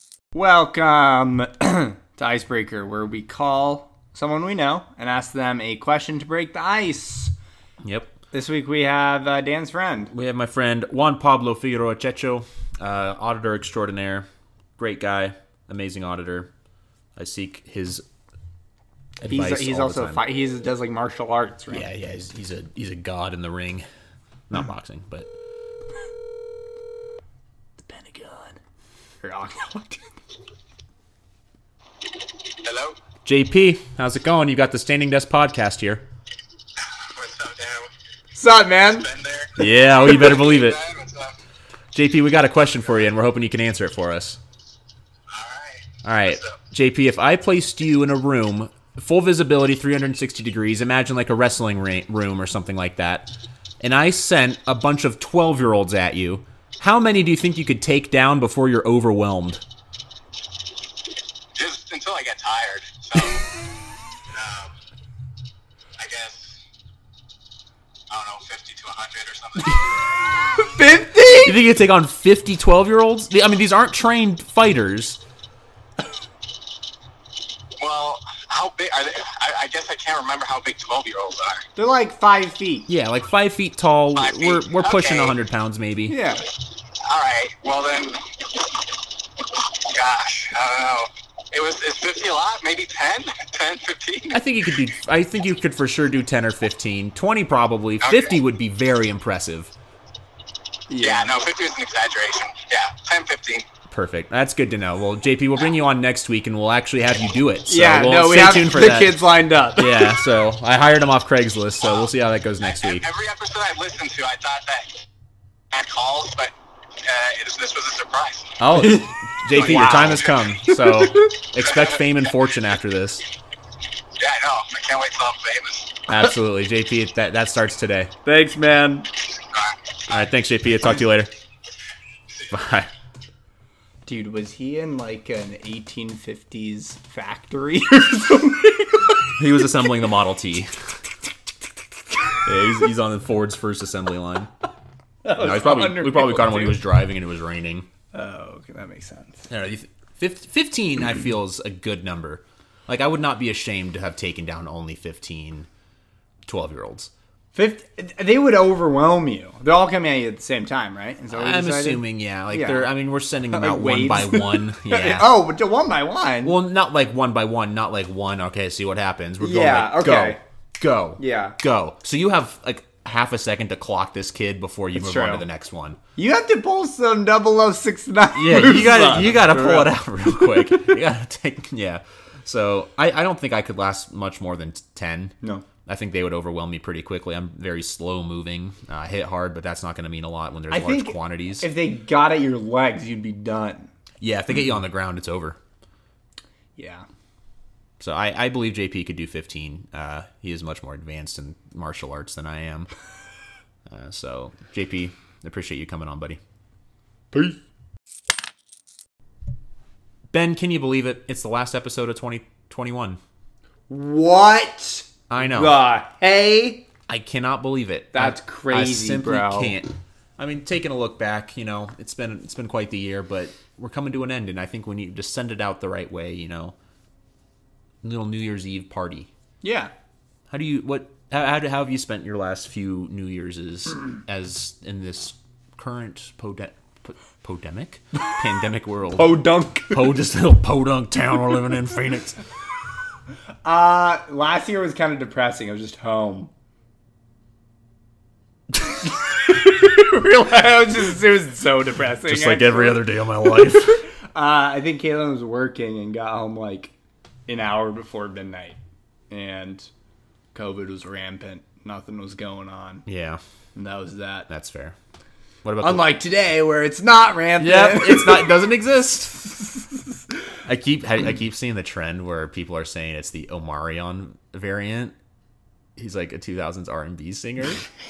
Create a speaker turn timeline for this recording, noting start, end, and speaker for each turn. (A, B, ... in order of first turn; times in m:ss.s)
0:00.3-0:07.3 A
0:07.8-0:08.1 B
0:08.3-0:10.1 A
0:10.1-0:16.5 B
0:17.2-0:18.0 B
0:19.2-0:20.2 B
0:19.3-0:21.8 A
0:21.7-0:23.8 B
0:24.5-0:25.3 B
0:27.8-0:28.6 A
0:29.2-0:30.0 A
0:32.6-0:33.0 C
0:33.2-0:36.0 B
0:36.8-0:37.9 C
0:38.4-0:39.1 A
0:38.9-0:41.3 C
0:39.6-0:40.8 B
0:41.9-0:44.4 B
0:45.3-0:46.6 C
0:46.0-0:59.6 B
1:01.5-1:03.4 C
1:04.3-1:04.7 C
1:06.0-1:06.6 C
1:08.1-1:10.0 C
1:10.6-1:11.6 A
1:11.3-1:15.2 B
1:17.8-1:21.6 C
1:21.8-1:22.9 A
1:22.9-1:26.2 B
1:24.2-1:25.4 C
1:26.1-1:26.4 A
1:27.0-1:28.7 C
1:29.6-1:34.4 C
1:34.3-1:39.7 B
1:38.0-1:38.4 C
1:40.9-1:41.3 A
1:41.0-1:43.6 C
1:43.9-1:53.0 B
1:47.7-1:50.2 A
1:52.6-1:55.0 C
1:55.7-1:58.6 C
1:58.6-2:03.2 B
1:58.7-2:01.3 A
1:59.5-2:00.6 C
2:01.6-2:02.0 C
2:04.2-2:06.0 C
2:06.1-2:08.1 B
2:08.2-2:09.1 A
2:10.1-2:11.3 B
2:12.5-2:12.9 B
2:14.0-2:19.2 A
2:19.4-2:20.7 B
2:22.4-2:24.5 B
2:25.2-2:26.8 A
2:25.3-2:27.9 B
2:28.1-2:29.5 A
2:29.5-2:35.7 B
2:36.4-2:37.1 B
2:37.5-2:42.9 A
2:41.3-2:45.3 B
2:43.5-2:46.6 A
2:46.4-2:56.0 B
2:49.4-2:50.4 A
2:51.2-2:51.6 A
2:55.0-2:55.4 A
2:56.2-2:59.9 A
2:58.3-3:11.7 B
3:10.7-3:13.9 A
3:14.2-3:15.6 B
3:16.8-3:17.0 A
3:18.0-3:22.9 B
3:23.9-3:26.4 B
3:30.3-3:33.2 B
3:33.9-3:36.8 A
3:35.3-3:35.8 B
3:37.1-3:46.8 B
3:38.1-3:39.8 A
3:48.0-3:49.3 B
3:49.6-3:49.9 A
3:50.5-3:59.4 B
3:59.2-4:00.1 A
3:59.9-4:02.4 B
4:03.6-4:06.5 A
4:09.4-4:13.0 A
4:12.2-4:14.0 B
4:14.3-4:16.9 A
4:17.5-4:18.8 A
4:19.3-4:19.9 A
4:20.5-4:23.0 A
4:23.0-4:23.4 B
4:23.8-4:24.5 A
4:24.5-4:24.9 B
4:25.6-4:26.1 B
4:25.8-4:28.6 A
4:27.6-4:29.6 B
4:30.6-4:35.1 B
4:36.0-4:37.9 B